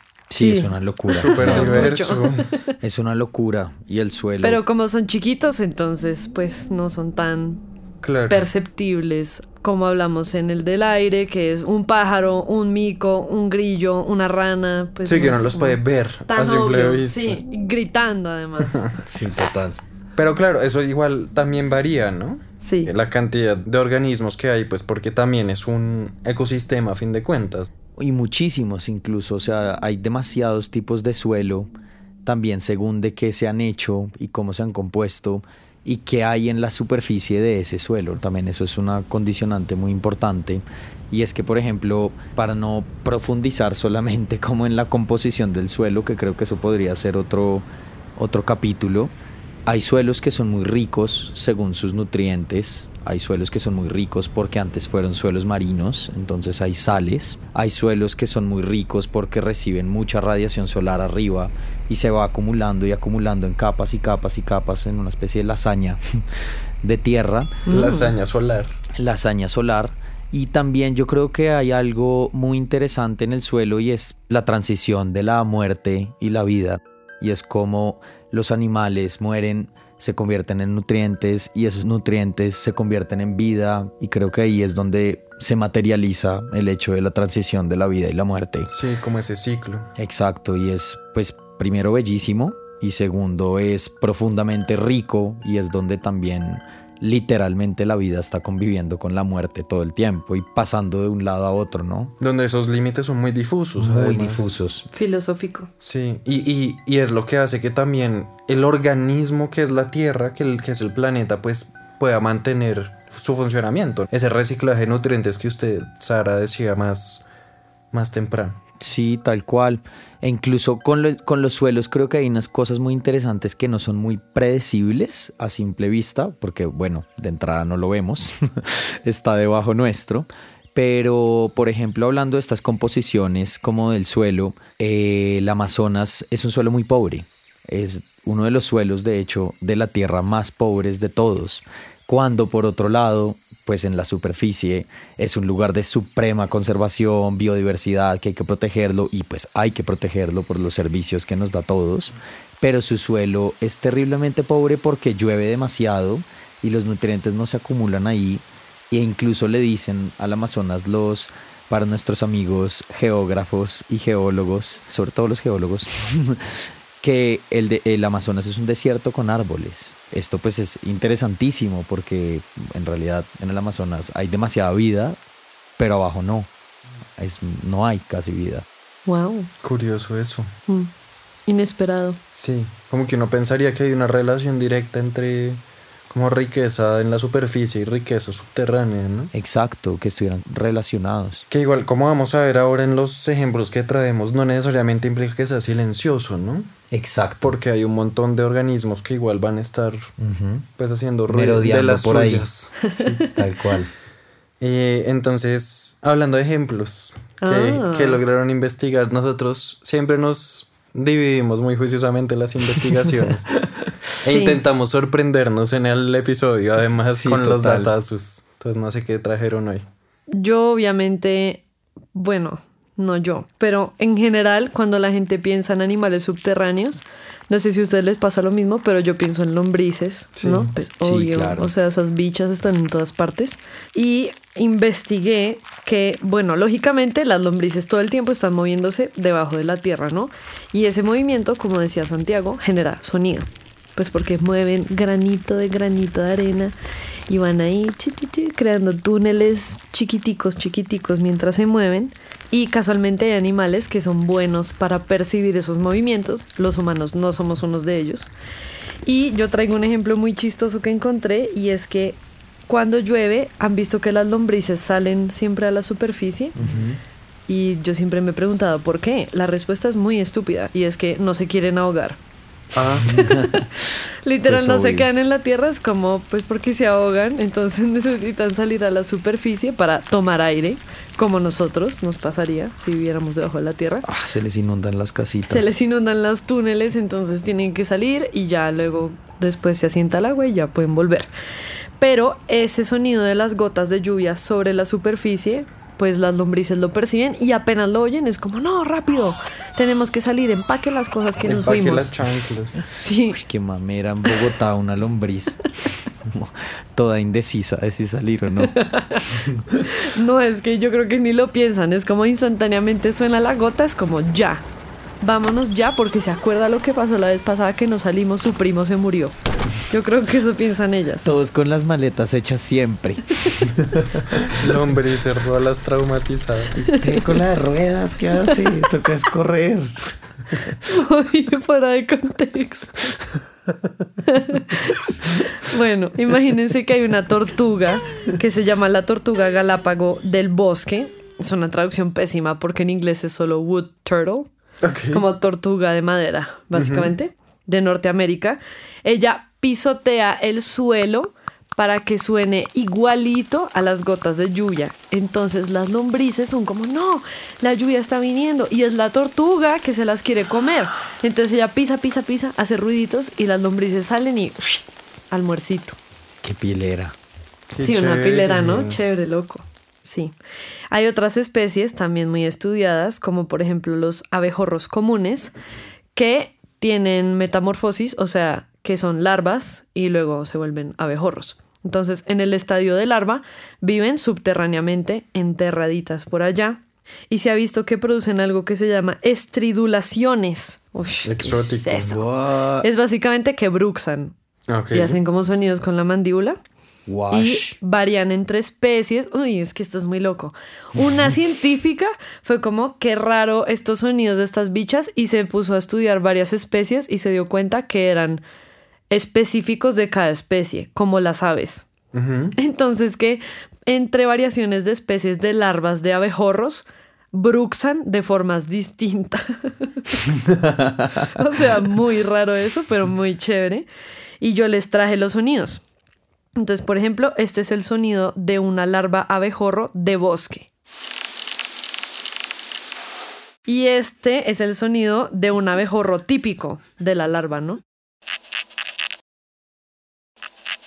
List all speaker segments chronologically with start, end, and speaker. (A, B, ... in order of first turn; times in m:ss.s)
0:00.3-0:01.9 A
0:00.4-0:02.7 B
0:01.2-0:02.5 C
0:02.8-0:04.6 A
0:04.4-0:07.6 B
0:08.0-0:08.5 C
0:08.3-0:18.9 B
0:15.0-0:17.4 C
0:18.7-0:19.0 C
0:19.1-0:19.8 A
0:20.2-0:27.7 C
0:22.6-0:22.9 B
0:28.0-0:31.7 A
0:32.3-0:47.6 A
0:48.2-0:49.1 A
0:49.7-1:06.0 A
1:06.8-1:07.8 A
1:07.7-1:08.1 B
1:07.7-1:08.8 C
1:09.0-1:28.7 A
1:28.7-1:29.9 C
1:30.0-1:42.1 A
1:42.2-1:44.6 C
1:43.8-1:44.9 A
1:44.9-1:45.7 B
1:45.8-1:57.2 C
1:57.9-1:58.6 C
1:58.8-2:55.2 A
2:55.8-2:56.5 A
2:57.2-2:58.7 A
2:59.1-2:59.5 B
2:59.6-3:00.5 C
3:01.5-3:02.2 B
3:02.4-3:09.3 C
3:09.3-3:11.4 A
3:11.5-3:16.7 C
3:16.9-3:17.6 A
3:17.4-3:20.1 C
3:20.2-3:20.7 A
3:20.8-3:23.2 C
3:21.3-3:22.5 A
3:22.8-3:23.3 B
3:23.3-3:23.9 A
3:24.6-3:33.5 C
3:27.4-3:28.2 B
3:34.2-3:39.8 C
3:34.2-3:34.6 B
3:36.8-3:37.9 A
3:40.3-4:06.8 B
3:50.4-3:50.7 C
3:51.0-3:51.7 A
4:07.3-4:18.3 B
4:19.0-4:26.6 B
4:26.6-4:27.0 A
4:26.6-4:26.9 C
4:27.5-4:32.2 B
4:32.7-4:33.1 C
4:33.0-4:33.7 A
4:33.1-4:33.6 B
4:34.2-4:44.1 B
4:34.4-4:35.1 A
4:44.0-4:45.7 A
4:45.5-4:51.3 B
4:52.0-5:02.1 B
5:01.4-5:02.8 C
5:02.9-5:03.4 B
5:03.3-5:08.8 A
5:08.7-5:14.6 B
5:09.3-5:09.8 A
5:15.2-5:19.4 B
5:19.9-5:21.3 B
5:21.2-5:24.7 A
5:24.5-5:26.8 C
5:26.8-5:30.6 A
5:26.9-5:27.2 B
5:30.8-5:33.2 B
5:34.3-5:44.5 B
5:44.8-5:45.2 C
5:45.1-6:06.0 B
5:46.7-5:47.1 C
6:06.4-6:07.1 A
6:07.8-6:09.0 C
6:07.8-6:10.3 B
6:10.9-6:15.5 B
6:16.1-6:32.2 B
6:31.3-6:32.2 C
6:32.0-6:32.9 A
6:32.8-6:34.3 B
6:34.7-6:35.2 C
6:34.9-6:36.6 B
6:37.1-6:37.8 A
6:37.3-6:48.4 B
6:49.1-6:51.9 B
6:52.1-6:52.6 C
6:52.6-7:00.4 B
7:00.4-7:01.1 A
7:01.3-7:03.9 B
7:04.4-7:05.8 B
7:06.6-7:10.7 B
7:13.7-7:17.8 B